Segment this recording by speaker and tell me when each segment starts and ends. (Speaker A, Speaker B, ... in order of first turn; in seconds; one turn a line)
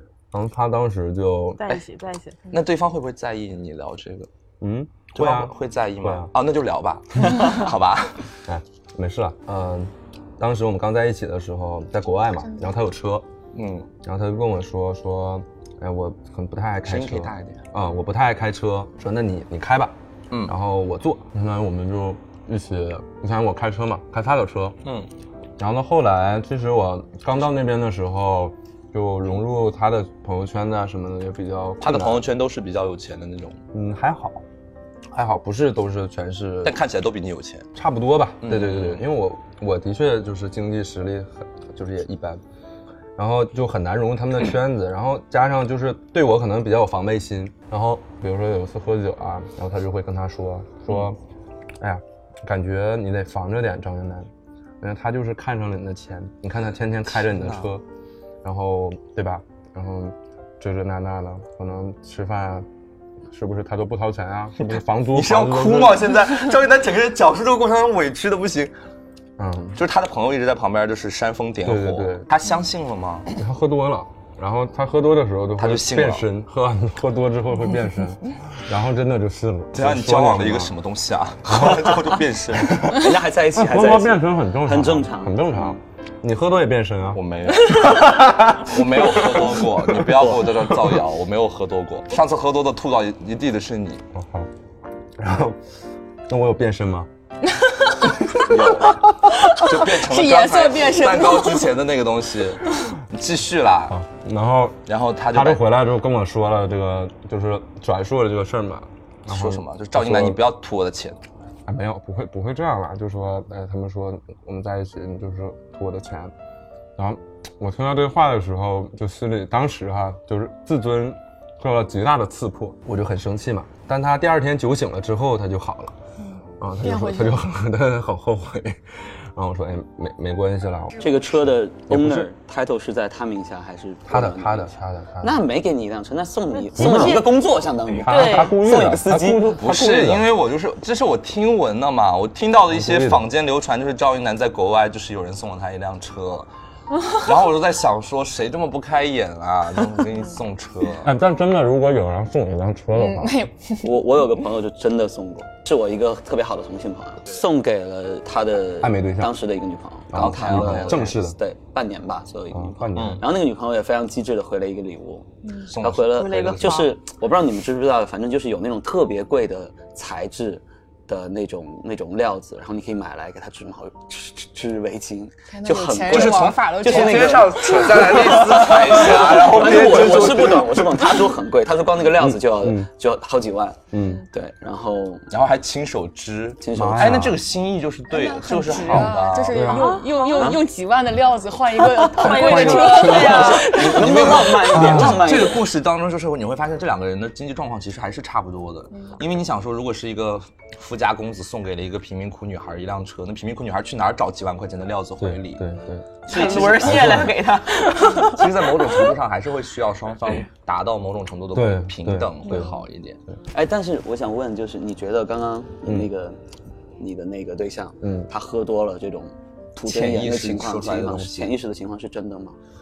Speaker A: 0.3-1.7
Speaker B: 1.6-2.4
Speaker C: 2.5-4.3
Speaker A: 4.6-6.3
Speaker C: 5.1-8.3
Speaker A: 8.5-13.3
Speaker C: 13.5-13.9
Speaker A: 14.0-24.8
Speaker C: 16.8-17.6
Speaker A: 25.6-32.2
Speaker C: 31.8-33.6
Speaker A: 33.7-34.4
Speaker A: 35.1-36.8
Speaker C: 36.6-37.7
Speaker A: 37.7-42.4
Speaker C: 38.4-39.0
Speaker A: 43.1-51.2
Speaker A: 51.8-54.3
Speaker A: 54.8-57.8
Speaker C: 57.2-57.7
Speaker A: 58.4-62.7
Speaker A: 63.3-66.1
Speaker C: 64.6-68.7
Speaker A: 69.4-69.8
Speaker C: 69.8-73.3
Speaker A: 71.6-72.3
Speaker A: 73.3-80.7
Speaker C: 75.6-76.2
Speaker C: 79.7-83.0
Speaker A: 81.5-81.9
Speaker D: 82.9-85.8
Speaker A: 83.5-90.6
Speaker C: 87.1-94.0
Speaker A: 94.1-94.5
Speaker A: 95.2-95.6
Speaker A: 96.3-97.1
Speaker E: 97.5-98.6
Speaker C: 98.4-104.0
Speaker E: 99.3-101.7
Speaker A: 103.9-110.4
Speaker C: 104.8-105.6
Speaker C: 109.2-111.2
Speaker A: 111.7-116.3
Speaker A: 117.0-126.0
Speaker E: 126.2-127.4
Speaker A: 126.6-132.3
Speaker D: 131.0-139.5
Speaker A: 134.1-135.4
Speaker B: 136.6-137.3
Speaker A: 136.7-137.3
Speaker A: 137.9-140.3
Speaker B: 138.1-138.5
Speaker C: 139.6-146.5
Speaker A: 142.7-143.2
Speaker C: 147.1-151.1
Speaker A: 151.0-153.5
Speaker E: 152.9-153.9
Speaker D: 153.8-185.2
Speaker A: 158.8-159.4
Speaker A: 160.1-161.4
Speaker C: 160.1-161.1
Speaker A: 162.5-163.2
Speaker C: 162.9-163.2
Speaker E: 165.4-165.7
Speaker C: 165.7-166.8
Speaker B: 166.1-166.9
Speaker E: 175.5-177.5
Speaker C: 176.1-181.1
Speaker A: 182.2-182.9
Speaker A: 183.9-184.2
Speaker C: 185.3-189.7
Speaker D: 186.6-187.3
Speaker A: 186.7-187.4
Speaker E: 188.1-193.9
Speaker A: 188.8-189.9
Speaker B: 189.7-190.6
Speaker D: 190.3-190.7
Speaker B: 192.1-193.9
Speaker A: 192.2-193.8
Speaker C: 193.1-205.6
Speaker D: 193.2-195.7
Speaker A: 194.7-195.3
Speaker A: 205.2-207.4
Speaker C: 206.3-207.4
Speaker B: 206.3-208.5
Speaker C: 208.1-213.2
Speaker A: 211.5-212.7
Speaker D: 213.5-216.4
Speaker A: 215.8-216.1
Speaker D: 217.0-222.6
Speaker A: 218.0-218.3
Speaker C: 219.8-221.6